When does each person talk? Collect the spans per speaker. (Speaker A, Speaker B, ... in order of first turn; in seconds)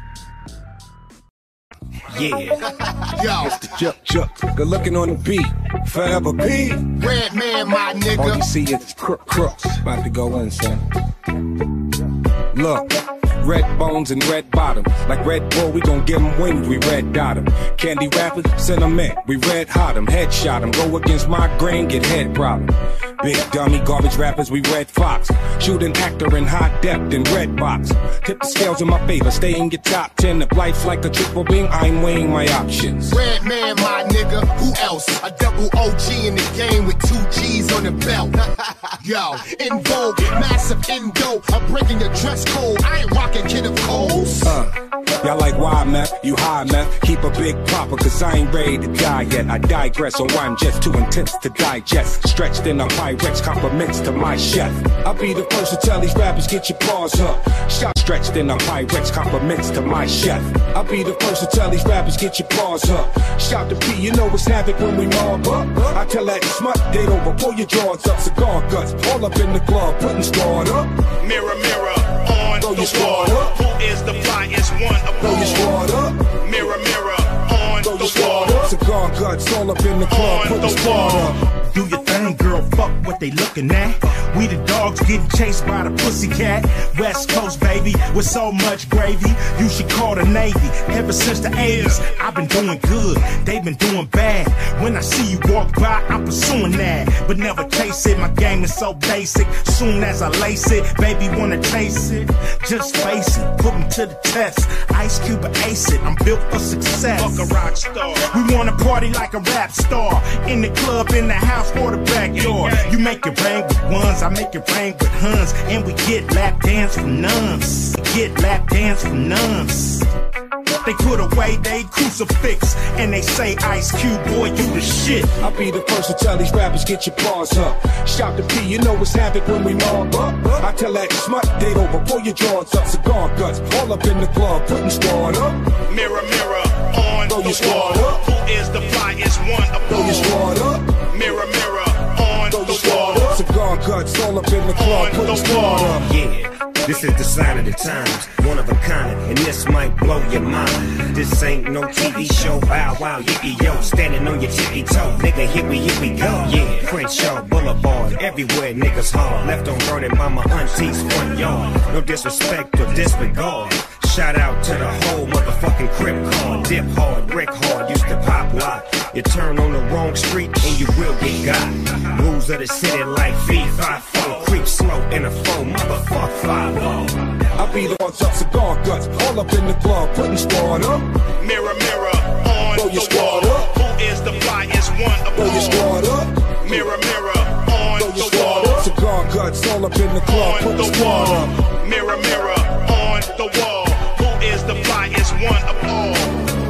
Speaker A: 2.1-2.6, 146.0-177.1
Speaker B: 3.2-3.6, 6.9-8.4, 33.1-44.5
Speaker C: 4.0-6.9, 8.2-10.8, 12.5-12.9, 13.4-33.2, 44.4-70.9, 72.6-73.5, 75.2-76.2, 77.8-81.3, 125.4-135.6, 137.3-138.2, 139.9-140.8, 142.5-146.1, 177.6-181.1, 182.7-183.7, 185.4-186.7, 188.0-191.5
Speaker D: 71.2-75.7, 76.4-78.7, 80.1-120.1, 120.8-125.3, 135.9-140.4, 141.1-143.3, 144.8-146.0, 181.4-185.9, 186.6-188.9, 190.3-196.5